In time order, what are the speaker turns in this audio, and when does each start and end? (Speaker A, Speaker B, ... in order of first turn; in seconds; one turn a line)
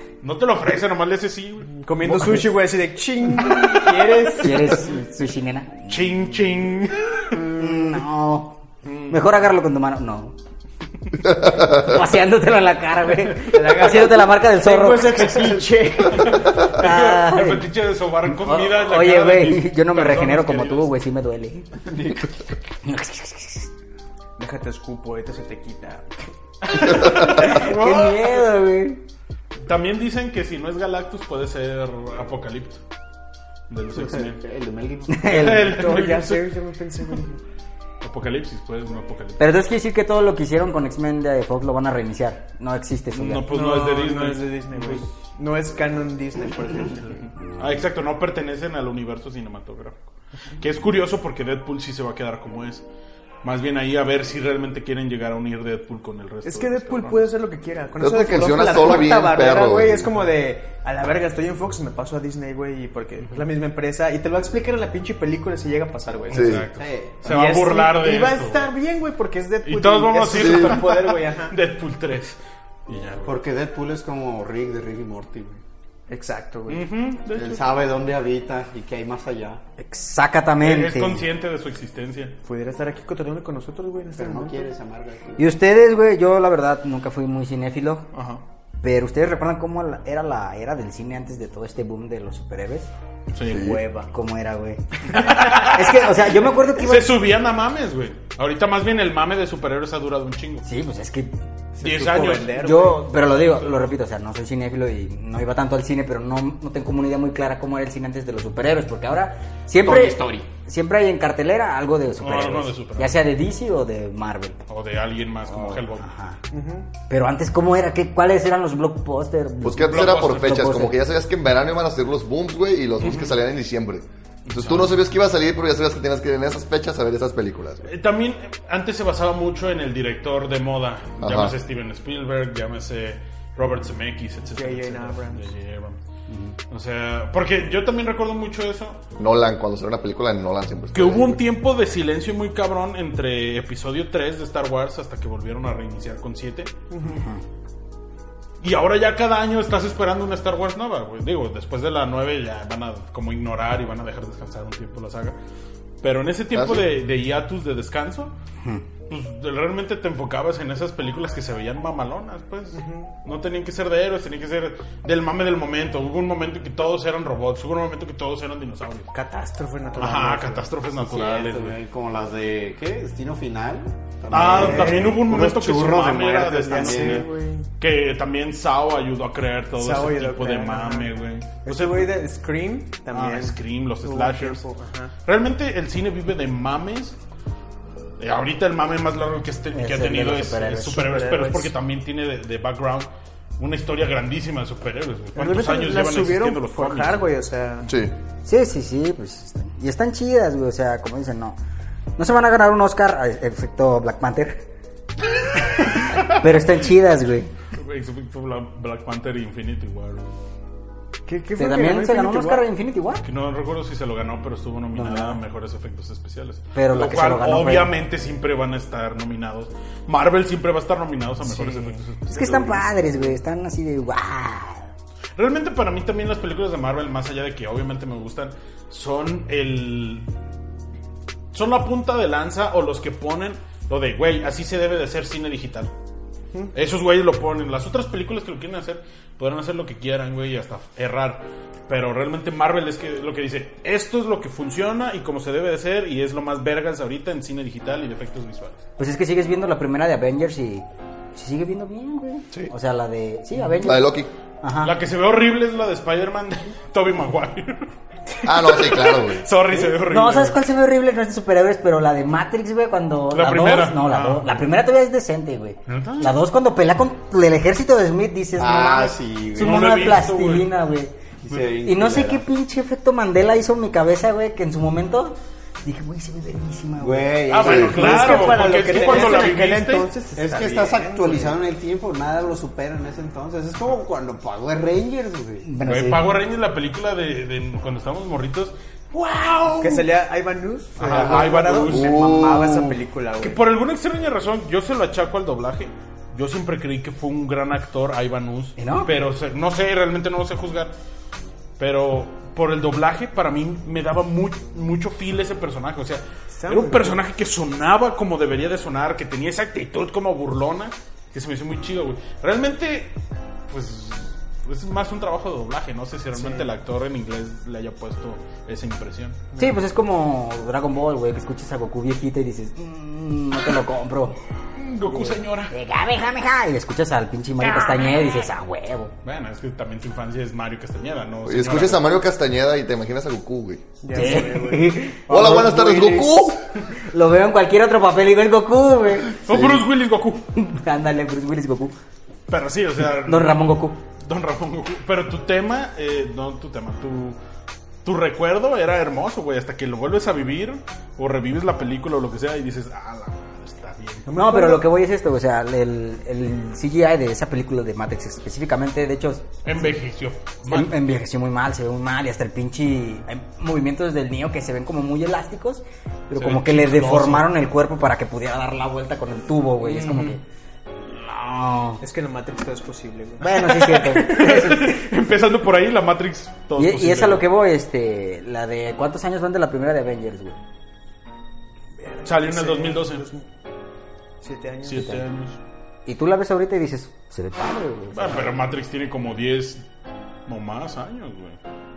Speaker A: 0.2-2.5
Speaker B: 1.7-4.9
Speaker A: 3.5-3.7
Speaker C: 4.4-6.2
Speaker A: 5.9-7.5
Speaker C: 7.4-10.3
Speaker A: 8.8-9.3
Speaker C: 11.3-15.5
Speaker B: 13.4-16.7
Speaker A: 15.5-20.9
Speaker C: 16.1-17.7
Speaker C: 18.3-21.9
Speaker D: 21.8-22.3
Speaker C: 22.8-23.7
Speaker B: 24.4-26.1
Speaker A: 26.6-28.4
Speaker C: 26.9-29.0
Speaker A: 29.6-32.8
Speaker A: 33.7-34.4
Speaker D: 33.9-35.5
Speaker C: 35.1-35.9
Speaker A: 35.2-36.5
Speaker B: 35.6-37.4
Speaker A: 38.0-39.5
Speaker C: 39.4-43.5
Speaker A: 43.1-45.0
Speaker B: 43.5-47.2
Speaker A: 47.1-50.1
Speaker A: 50.6-52.9
Speaker A: 53.4-57.3
Speaker B: 56.4-66.7
Speaker E: 58.0-60.1
Speaker A: 66.3-68.7
Speaker E: 66.3-66.7
Speaker D: 66.8-67.2
Speaker B: 67.2-71.6
Speaker A: 69.6-73.4
Speaker E: 70.4-70.8
Speaker D: 73.2-75.6
Speaker B: 76.1-76.9
Speaker A: 76.7-77.7
Speaker D: 77.3-79.6
Speaker C: 79.8-81.3
Speaker A: 80.6-82.3
Speaker B: 82.4-84.7
Speaker D: 84.2-85.5
Speaker C: 85.4-88.0
Speaker A: 88.1-88.4
Speaker C: 88.8-92.9
Speaker A: 93.3-93.8
Speaker B: 93.5-94.1
Speaker E: 93.5-93.8
Speaker C: 94.1-97.2
Speaker A: 95.1-100.7
Speaker C: 100.7-101.3
Speaker B: 101.8-103.2
Speaker A: 101.8-102.6
Speaker C: 102.6-114.6
Speaker D: 109.8-110.5
Speaker A: 112.2-113.1
Speaker A: 114.7-116.1
Speaker C: 115.5-116.4
Speaker B: 116.5-116.9
Speaker C: 117.1-121.0
Speaker E: 119.6-127.9
Speaker A: 119.9-120.7
Speaker A: 123.0-123.4
Speaker A: 124.5-125.0
Speaker A: 127.9-136.0
Speaker E: 131.2-131.6
Speaker B: 134.4-135.5
Speaker C: 136.3-136.6
Speaker A: 136.7-139.0
Speaker E: 139.2-141.4
Speaker A: 140.9-146.7
Speaker B: 146.9-147.2
Speaker C: 147.1-147.4
Speaker A: 148.6-155.4
Speaker A: 156.0-158.3
Speaker E: 156.5-156.9
Speaker A: 159.1-169.1
Speaker B: 162.7-163.1
Speaker B: 169.1-170.7
Speaker A: 170.0-171.8
Speaker D: 171.0-177.3
Speaker A: 174.3-177.3
Speaker B: 174.4-175.3
Speaker B: 176.6-177.7
Speaker A: 177.8-182.1
Speaker B: 179.8-181.1
Speaker B: 181.6-185.1
Speaker A: 183.1-184.6
Speaker A: 185.2-187.2
Speaker A: 188.2-193.1
Speaker C: 189.7-191.2
Speaker B: 191.0-191.7
Speaker A: 193.6-197.2
Speaker B: 195.3-197.9
Speaker E: 197.9-198.1
Speaker C: 198.4-201.6
Speaker C: 202.2-204.6
Speaker C: 205.6-207.5
Speaker A: 207.7-210.4
Speaker B: 211.3-212.7
Speaker C: 211.6-213.2
Speaker A: 213.2-223.0
Speaker C: 214.9-215.4
Speaker C: 216.8-217.9
Speaker B: 221.4-222.7
Speaker C: 222.3-224.9
Speaker A: 225.4-230.3
Speaker A: 231.5-235.9
Speaker A: 236.7-248.8
Speaker C: 249.0-254.9
Speaker E: 253.8-254.3
Speaker A: 254.8-257.9
Speaker E: 258.4-259.5
Speaker A: 258.5-260.6
Speaker C: 259.8-271.1
Speaker A: 263.3-264.7
Speaker A: 265.9-266.4
Speaker D: 268.6-269.9
Speaker A: 269.6-270.7
Speaker D: 271.4-272.4
Speaker C: 271.8-278.2
Speaker D: 277.0-279.5
Speaker A: 277.5-280.1
Speaker E: 277.7-277.9
Speaker B: 277.7-281.6
Speaker D: 280.4-285.6
Speaker C: 285.6-286.3
Speaker A: 285.8-290.1
Speaker B: 289.7-293.6
Speaker A: 291.0-292.8
Speaker D: 291.1-291.5
Speaker E: 291.9-292.8
Speaker A: 293.4-300.9
Speaker C: 298.8-299.1
Speaker A: 301.8-313.1
Speaker B: 306.5-307.2
Speaker A: 313.7-319.4
Speaker B: 316.3-316.7
Speaker B: 319.5-319.8
Speaker C: 319.6-324.4
Speaker A: 324.8-325.7
Speaker C: 325.7-329.1
Speaker A: 327.7-328.3
Speaker A: 329.2-332.1
Speaker E: 331.4-333.9
Speaker B: 334.0-336.4
Speaker C: 334.1-335.7
Speaker E: 335.3-336.6
Speaker C: 336.9-339.4
Speaker A: 339.3-340.5
Speaker E: 339.5-339.8
Speaker C: 340.6-341.9
Speaker A: 342.5-347.4
Speaker C: 343.2-344.0
Speaker A: 348.0-354.3
Speaker B: 354.3-354.9
Speaker C: 354.3-359.9
Speaker A: 359.6-361.0
Speaker C: 360.7-370.4
Speaker A: 366.4-367.5
Speaker A: 369.8-370.4
Speaker C: 371.1-372.0
Speaker B: 372.0-373.8
Speaker C: 373.4-375.0
Speaker A: 373.6-377.4
Speaker C: 376.8-380.6
Speaker B: 381.9-383.5
Speaker A: 382.2-383.2
Speaker B: 384.4-385.2
Speaker A: 384.8-385.6
Speaker C: 386.1-388.6
Speaker A: 388.1-389.8
Speaker A: 390.5-391.6